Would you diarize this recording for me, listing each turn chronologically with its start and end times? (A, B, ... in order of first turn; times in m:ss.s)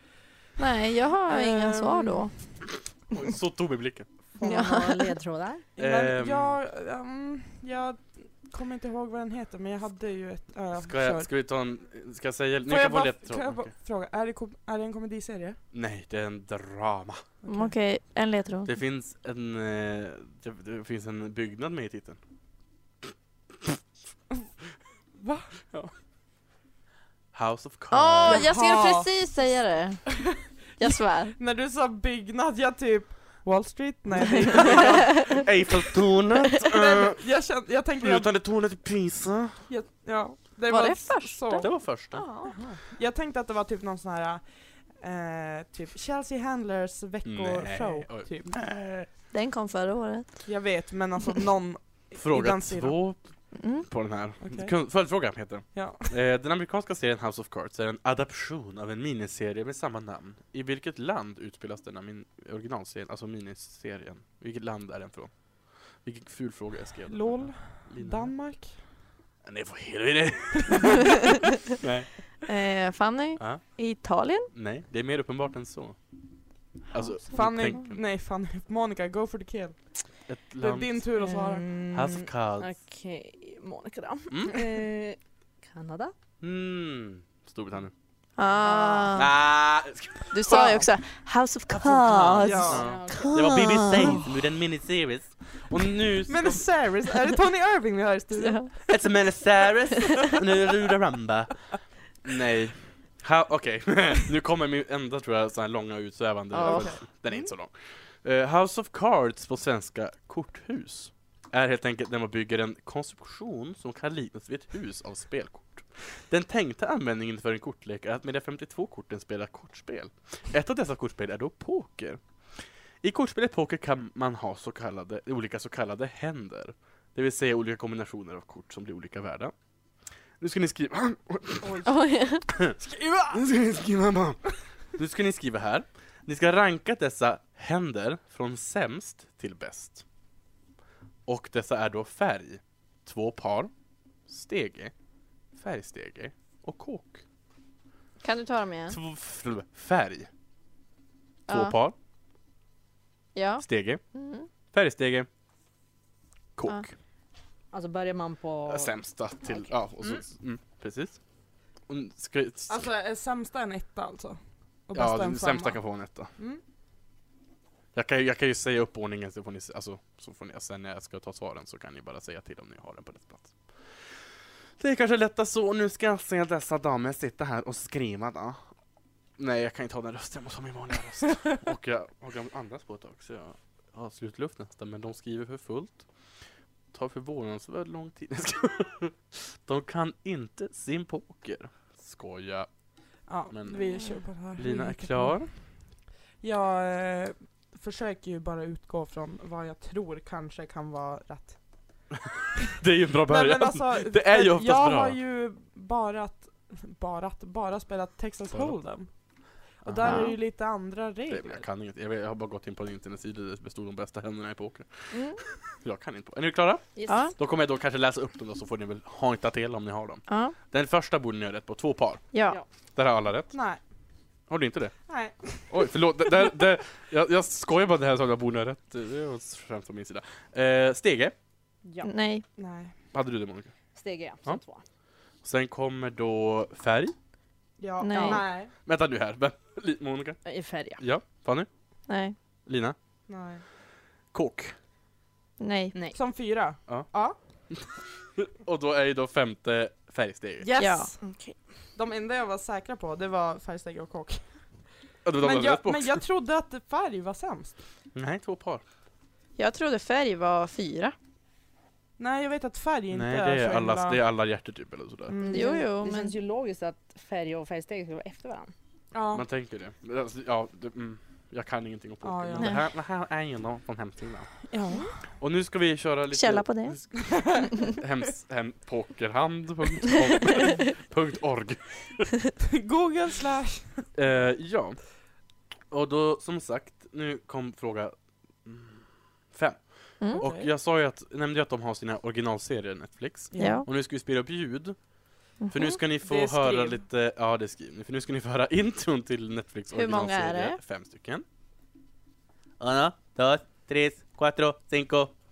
0:00.6-0:02.3 A
0:01.3-0:02.2 B
0:03.1-0:04.1 C
0:04.4-0:05.6 D
0:04.4-0:05.1 A
0:05.8-0:11.3 B
0:05.8-0:06.6 C
0:10.7-0:13.7 C
0:12.7-0:15.6 B
0:15.7-0:17.2 C
0:17.4-0:17.7 B
0:17.5-0:18.7 A
0:18.6-0:22.2 C
0:25.2-0:25.5 B
0:27.3-0:28.5 C
0:27.9-0:30.1 A
0:28.2-0:29.1 B
0:30.8-0:31.4 A
0:31.4-0:35.4 B
0:34.5-0:37.2 C
0:34.6-0:35.0 A
0:36.6-0:38.3 B
0:38.0-0:39.6 C
0:39.7-0:48.6 B
0:40.7-0:42.5 A
0:41.6-0:42.3 C
0:47.2-0:49.1 C
0:49.3-0:50.5 A
0:50.5-0:53.0 B
0:52.2-0:53.2 C
0:53.5-0:53.9 A
0:53.8-1:08.3 C
0:54.4-0:54.7 B
0:55.7-0:56.1 B
1:07.1-1:08.8 B
1:09.4-1:11.1 C
1:11.7-1:12.1 C
1:12.4-1:14.5 A
1:14.5-1:16.0 C
1:16.9-1:18.0 C
1:17.3-1:20.0 B
1:20.3-1:21.1 C
1:20.6-1:22.2 B
1:21.2-1:22.0 D
1:21.9-1:22.7 C
1:22.6-1:26.1 D
1:24.3-1:24.7 C
1:26.4-1:27.9 C
1:28.4-1:29.3 A
1:28.6-1:29.1 D
1:29.1-1:30.6 C
1:30.3-1:34.2 A
1:30.5-1:30.9 B
1:31.7-1:36.6 C
1:32.4-1:32.9 B
1:32.7-1:33.5 D
1:36.3-1:38.9 B
1:38.4-1:38.8 A
1:38.9-2:09.5 C
1:46.6-1:47.5 B
2:10.4-2:11.8 C
2:11.6-2:12.0 B
2:11.9-2:12.5 A
2:12.8-2:13.4 B
2:13.3-2:14.4 C
2:14.9-2:20.0 C
2:21.3-2:23.7 C
2:24.3-2:24.9 C
2:25.6-2:27.2 C
2:28.2-2:29.0 A
2:28.9-2:30.3 C
2:31.5-2:31.8 A
2:31.5-2:32.0 C
2:33.4-2:34.5 A
2:33.6-2:34.0 C
2:34.7-2:35.3 C
2:36.6-2:36.9 C
2:37.7-2:40.2 D
2:38.7-2:41.2 C
2:41.9-2:42.9 C
2:42.7-2:45.8 B
2:44.9-2:46.3 C
2:46.4-2:46.6 B
2:48.0-2:54.2 C
2:54.8-2:58.6 C
2:59.4-3:06.1 C
3:06.9-3:12.7 C
3:13.3-3:15.6 B
3:13.5-3:15.5 C
3:16.4-3:21.6 B
3:22.8-3:25.2 C
3:23.3-3:29.1 B
3:28.5-3:28.8 C
3:29.8-3:31.6 B
3:29.8-3:30.3 C
3:30.0-3:30.4 A
3:31.3-3:42.2 C
3:35.1-3:35.4 A
3:37.1-3:37.3 A
3:40.3-3:40.6 A
3:42.3-3:42.6 A
3:43.0-3:43.6 C
3:43.5-3:43.8 B
3:44.5-3:45.0 C
3:45.1-3:45.9 B
3:45.7-3:51.4 C
3:51.8-3:52.1 D
3:52.0-3:52.4 A
3:52.6-3:52.9 B
3:53.1-3:53.7 C
3:54.0-3:54.8 D
3:55.4-3:57.1 C
3:57.8-3:58.7 B
3:58.0-3:58.4 A
3:58.1-3:58.4 D
3:58.8-4:00.4 C
4:00.4-4:01.0 D
4:01.0-4:01.7 C
4:02.1-4:02.4 A
4:02.7-4:03.0 C
4:03.3-4:03.6 B
4:04.3-4:04.8 C
4:05.6-4:06.0 A
4:06.1-4:07.4 B
4:07.7-4:10.7 C
4:10.6-4:11.2 B
4:10.8-4:11.1 A
4:11.2-4:11.6 D
4:12.0-4:14.6 B
4:15.2-4:16.2 C
4:15.4-4:17.8 B
4:18.2-4:18.8 C
4:19.6-4:21.2 A
4:22.2-4:24.2 B
4:23.1-4:25.4 C
4:25.3-4:25.9 B
4:25.4-4:28.7 D
4:25.5-4:26.4 A
4:29.1-4:29.4 B
4:29.3-4:34.5 C
4:32.2-4:32.8 B
4:34.7-4:35.2 B
4:35.4-4:42.3 C
4:36.3-4:37.0 A
4:37.3-4:37.7 B
4:42.6-4:44.0 B
4:44.2-4:45.0 C
4:45.9-4:55.0 C
4:50.3-4:50.7 B
4:53.5-4:53.9 B
4:53.6-4:53.9 A
4:55.6-4:56.0 A
4:55.7-5:01.4 C
4:56.2-4:57.0 B
4:59.9-5:00.8 A
5:02.8-5:05.3 C